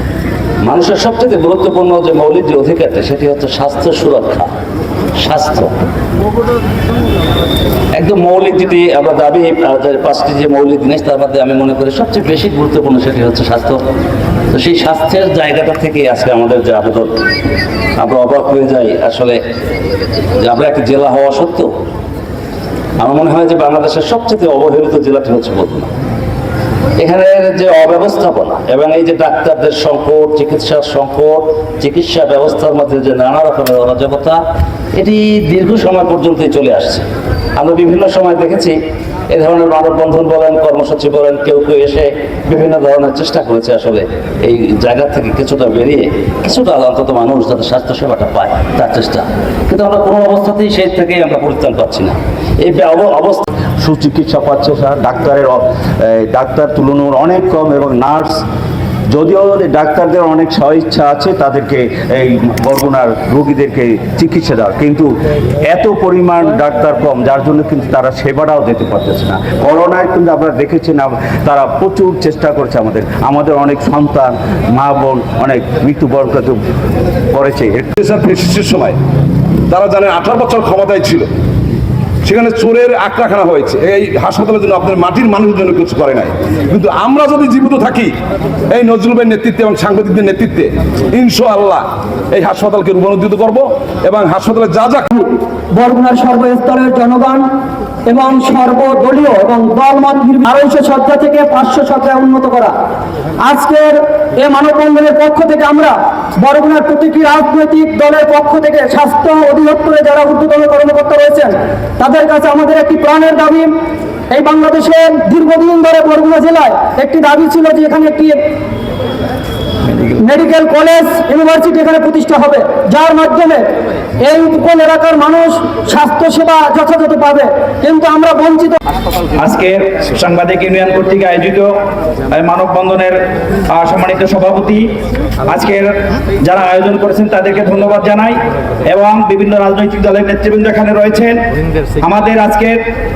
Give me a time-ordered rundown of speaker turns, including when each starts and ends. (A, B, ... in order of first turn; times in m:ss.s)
0:00.6-0:04.5 A
0:05.2-0:05.7 A
0:07.9-0:13.8 A
0:14.5-0:17.2 A
0:18.0-0:19.4 A
0:20.4-0:21.7 A
0:23.0-0:25.9 A
0:27.0-0:34.4 A
0:34.9-0:37.0 A
0:37.6-0:38.7 A
0:39.3-0:55.6 A
0:56.4-0:58.4 A
0:57.0-0:58.2 B
0:59.1-1:04.4 A
1:00.0-1:00.5 B
1:01.5-1:02.5 B
1:03.2-1:05.0 B
1:05.7-1:16.5 B
1:05.8-1:06.1 A
1:07.7-1:08.7 A
1:09.2-1:10.2 A
1:12.2-1:12.6 A
1:17.3-1:17.9 B
1:17.9-1:19.0 C
1:19.7-1:21.3 C
1:22.2-1:28.1 C
1:28.7-1:35.1 C
1:35.2-1:37.5 D
1:38.0-1:42.7 D
1:43.4-1:53.7 D
1:54.3-1:58.4 D
2:00.0-2:03.6 D
2:04.2-2:08.8 D
2:09.4-2:11.7 E
2:12.3-2:13.2 E
2:13.7-2:14.9 E
2:15.5-2:15.9 E
2:16.4-2:18.4 E
2:18.9-2:21.4 E
2:22.0-2:22.8 E